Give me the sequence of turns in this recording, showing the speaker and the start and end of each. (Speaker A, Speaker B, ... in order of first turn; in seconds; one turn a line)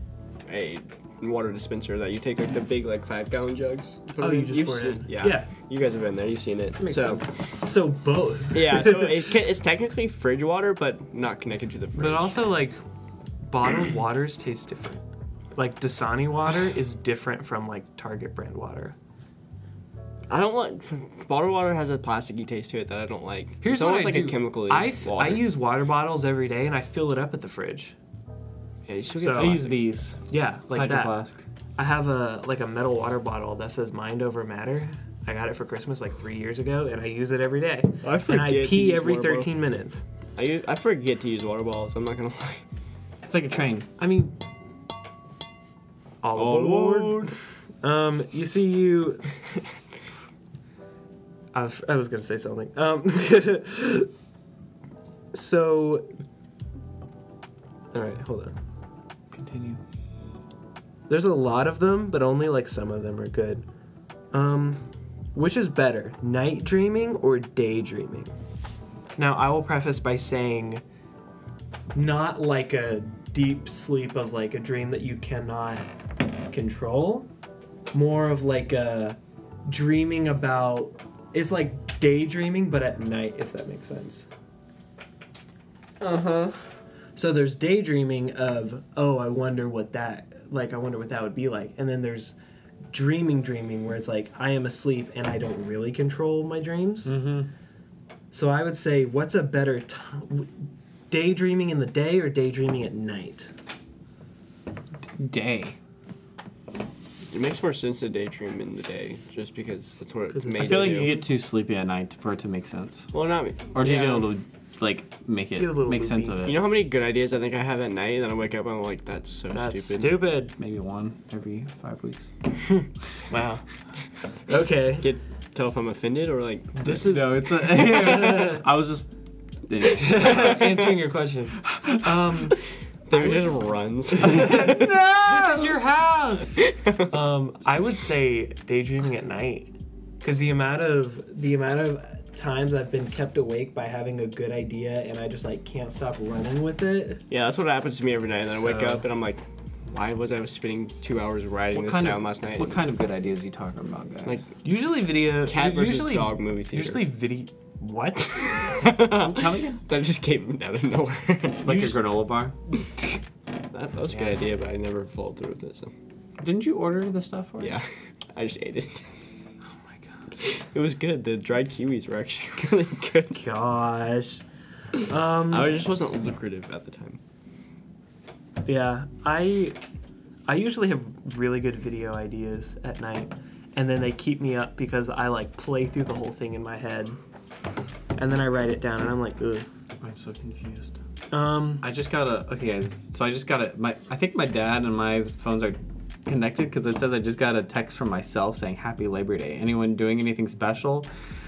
Speaker A: 0.5-7.3
Speaker B: 4.2-5.5
Speaker B: 6.8-9.2
Speaker A: 8.5-12.5
Speaker B: 12.0-12.8
Speaker B: 13.4-15.0
Speaker B: 15.6-19.0
Speaker A: 20.3-25.5
Speaker B: 23.6-27.9
Speaker A: 28.9-29.8
Speaker B: 29.2-29.6
Speaker C: 29.3-31.4
Speaker B: 30.3-31.2
Speaker B: 31.8-40.0
Speaker A: 38.0-39.5
Speaker A: 40.4-42.6
Speaker C: 43.2-43.9
Speaker B: 44.0-44.4
Speaker B: 46.2-49.3
Speaker A: 46.4-47.3
Speaker B: 51.5-54.1
Speaker B: 55.3-56.1
Speaker B: 57.9-58.6
Speaker C: 59.3-59.8
Speaker B: 61.1-63.7
Speaker B: 64.3-68.3
Speaker B: 69.2-70.8
Speaker B: 71.9-75.9
Speaker B: 76.5-77.3
Speaker B: 77.9-84.3
Speaker A: 86.0-86.5
Speaker B: 87.2-92.4
Speaker B: 92.9-97.2
Speaker C: 97.0-97.5
Speaker B: 98.3-103.5
Speaker C: 105.0-105.8
Speaker A: 107.3-111.1
Speaker B: 110.3-111.3
Speaker C: 110.6-113.1
Speaker A: 113.1-114.3
Speaker C: 113.8-116.7
Speaker B: 115.6-116.4
Speaker A: 116.4-120.3
Speaker B: 119.5-120.5
Speaker C: 120.6-122.3
Speaker B: 122.7-123.6
Speaker B: 124.5-125.1
Speaker A: 125.0-127.1
Speaker B: 126.8-128.7
Speaker C: 127.0-129.1
Speaker C: 129.7-130.8
Speaker B: 129.8-132.6
Speaker A: 130.2-130.9
Speaker C: 131.6-132.1
Speaker A: 133.1-134.9
Speaker B: 133.1-133.6
Speaker B: 134.2-147.2
Speaker C: 134.3-135.8
Speaker A: 136.7-137.0
Speaker A: 147.3-152.8
Speaker B: 148.5-149.1
Speaker C: 151.7-154.4
Speaker B: 154.6-159.8
Speaker A: 155.4-157.1
Speaker A: 158.7-161.9
Speaker C: 159.3-159.6
Speaker C: 161.6-162.6
Speaker A: 163.7-165.9
Speaker B: 164.1-164.4
Speaker C: 166.4-167.8
Speaker A: 167.6-169.1
Speaker A: 170.4-173.4
Speaker B: 173.3-174.4
Speaker B: 175.0-175.7
Speaker A: 175.5-177.2
Speaker B: 178.7-179.8
Speaker B: 180.5-187.2
Speaker B: 188.2-189.7
Speaker C: 190.0-191.0
Speaker B: 191.3-191.9
Speaker C: 191.8-201.1